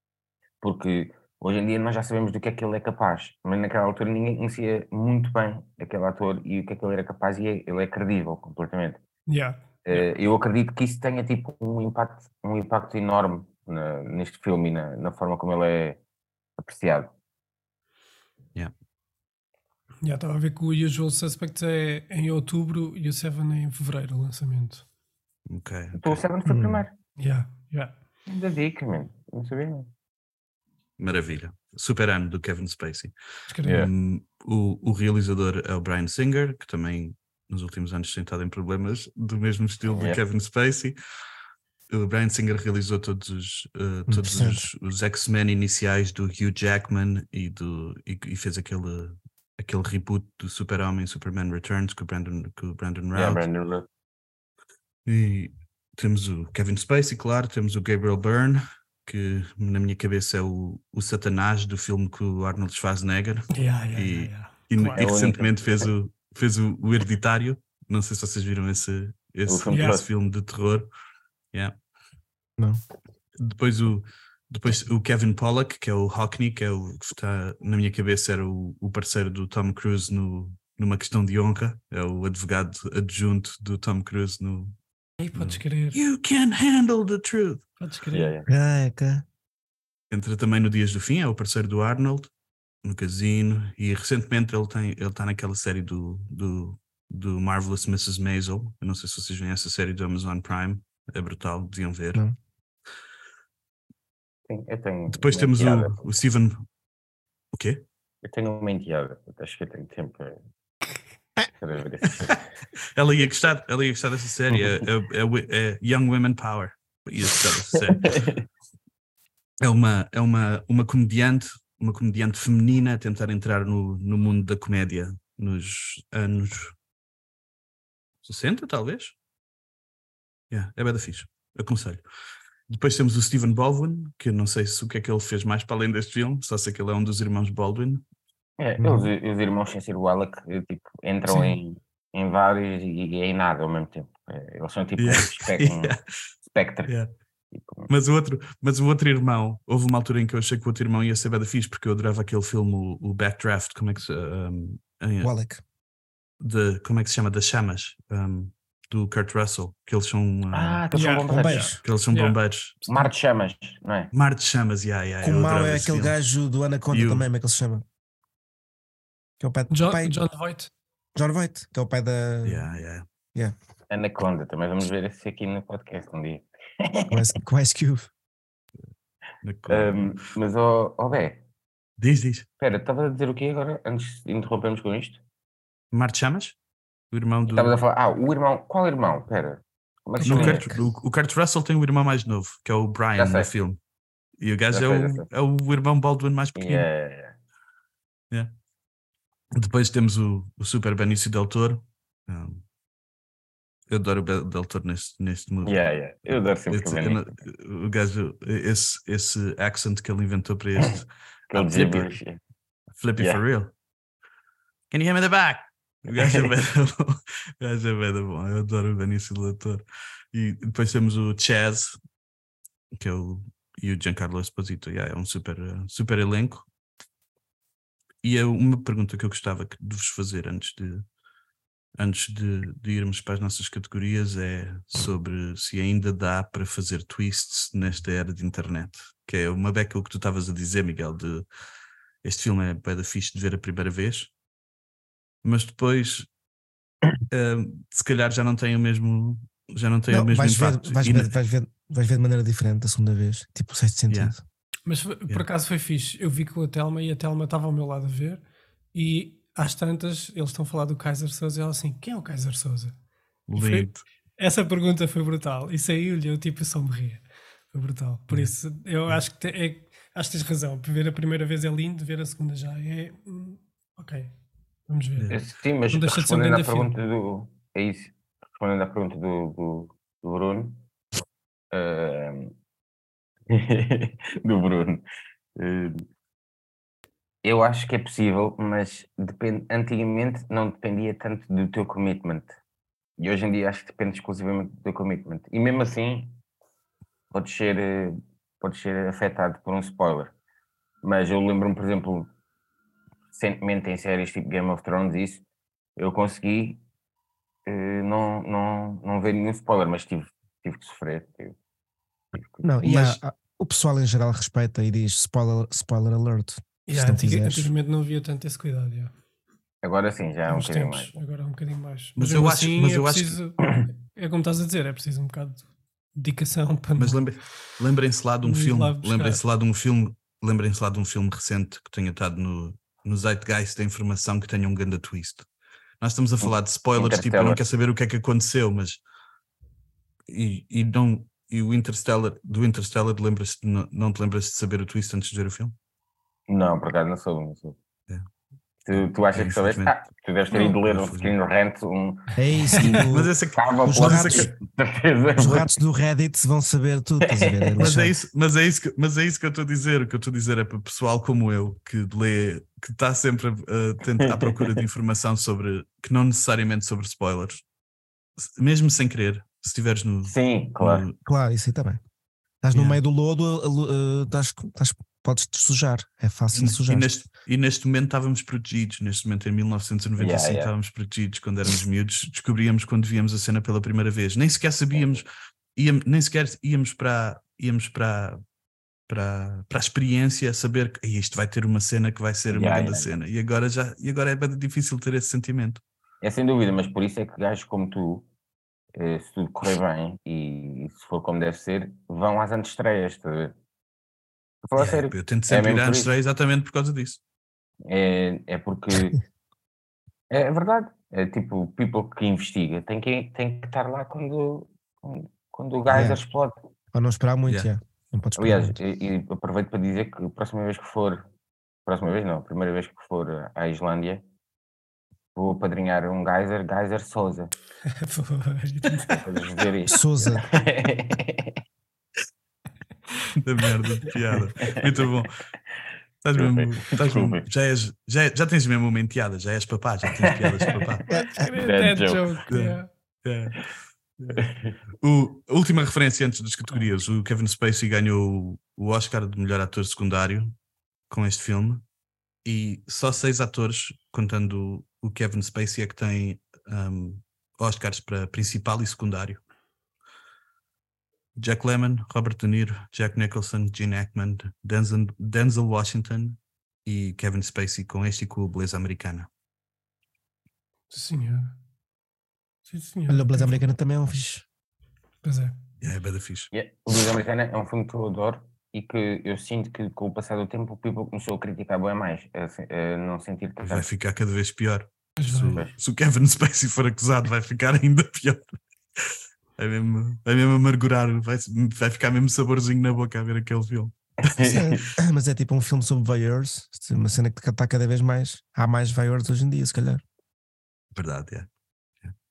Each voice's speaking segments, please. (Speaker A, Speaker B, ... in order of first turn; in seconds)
Speaker A: 0.6-9.0, 9.8-16.0, 16.6-17.1, 25.9-26.9, 28.3-29.9, 33.6-33.9, 39.9-40.2, 53.1-53.9, 65.0-65.9, 69.5-70.1, 88.1-88.5, 104.5-106.1, 108.2-110.4, 111.6-112.4, 118.0-118.4, 138.6-145.9, 146.5-146.9, 147.5-147.9, 160.5-161.8, 162.9-164.1, 173.9-177.2, 179.7-181.4, 182.6-185.2, 187.5-190.7, 193.2-193.5, 194.7-195.3, 196.6-197.4, 205.7-207.3, 211.5-212.4, 275.3-280.8, 281.7-282.5, 283.5-285.1, 285.6-286.1, 287.4-292.6, 293.2-296.4, 297.3-300.3, 301.0-302.3, 303.3-305.4, 306.0-306.8, 307.7-311.6, 312.3-312.7, 319.8-321.1, 336.4-337.6, 346.5-347.8, 348.9-355.7, 357.3-357.9, 364.2-364.8, 370.3-371.1, 380.2-380.7, 384.9-385.2, 392.5-393.1, 396.2-398.3, 399.0-403.6, 404.6-406.1, 407.9-409.2, 410.3-416.6, 418.4-421.3, 421.9-424.2, 425.4-427.5, 429.1-431.6, 434.6-435.1, 436.4-437.4, 440.2-440.8, 441.6-442.4, 444.4-444.8, 476.5-483.9, 485.5-485.7, 494.2-494.9
Speaker B: 9.3-9.7, 20.0-24.9, 27.2-27.9, 33.5-33.9, 63.5-65.1, 69.7-70.0, 85.2-86.0, 87.8-88.3, 160.9-162.4, 169.7-170.7, 190.2-190.6, 254.9-258.4, 258.9-262.9, 263.6-267.2, 267.7-274.3, 274.9-275.3, 275.9-276.9, 316.9-319.1, 320.5-327.2, 328.4-329.4, 427.9-429.2, 441.1-442.9, 470.9-471.6, 472.7-473.6, 475.2-475.6, 485.2-485.6
Speaker C: 25.5-26.2, 31.0-33.1, 33.7-41.0, 41.9-53.5, 55.0-70.9, 73.4-84.8, 85.3-87.6, 90.1-92.3, 92.8-102.2, 105.1-106.7, 107.5-107.8, 113.0-118.2, 119.6-126.8, 128.2-129.2, 130.5-132.0, 132.7-138.0, 145.0-146.0, 147.9-155.3, 156.4-160.8, 161.8-163.1, 164.1-166.2, 166.9-167.3, 172.4-173.1, 179.4-180.2, 182.0-182.5, 185.9-186.6, 187.1-187.8, 190.2-193.8, 194.4-196.9, 199.6-202.6, 203.9-212.1, 213.0-213.7, 214.9-222.0, 222.9-226.7, 228.2-231.1, 232.0-241.5, 242.2-244.3, 245.4-246.3, 247.3-251.3, 263.5-264.1, 322.2-323.4, 327.0-335.5, 336.0-339.0, 340.3-345.8, 348.9-350.0, 350.5-351.4, 353.1-354.5, 357.8-367.6, 368.4-371.2, 372.7-373.0, 376.5-388.4, 389.1-395.8, 404.8-407.2, 433.4-435.4, 436.2-441.0, 442.5-443.6, 445.0-450.6, 451.1-451.9, 452.4-459.4, 461.4-469.3, 475.8-476.5, 483.6-488.5, 489.0-493.9, 500.9-501.5
Speaker D: 26.5-26.8, 44.1-44.7, 88.5-89.2, 138.8-139.1, 155.2-155.6, 161.2-161.8, 165.2-167.8, 169.4-170.2, 171.2-172.7, 177.1-178.1, 250.1-254.4, 312.6-317.7, 352.4-354.5, 355.4-358.1, 371.2-372.0, 372.6-377.1, 415.9-416.2, 416.9-418.8, 429.9-430.5, 441.1-441.5, 473.1-474.4, 494.4-500.0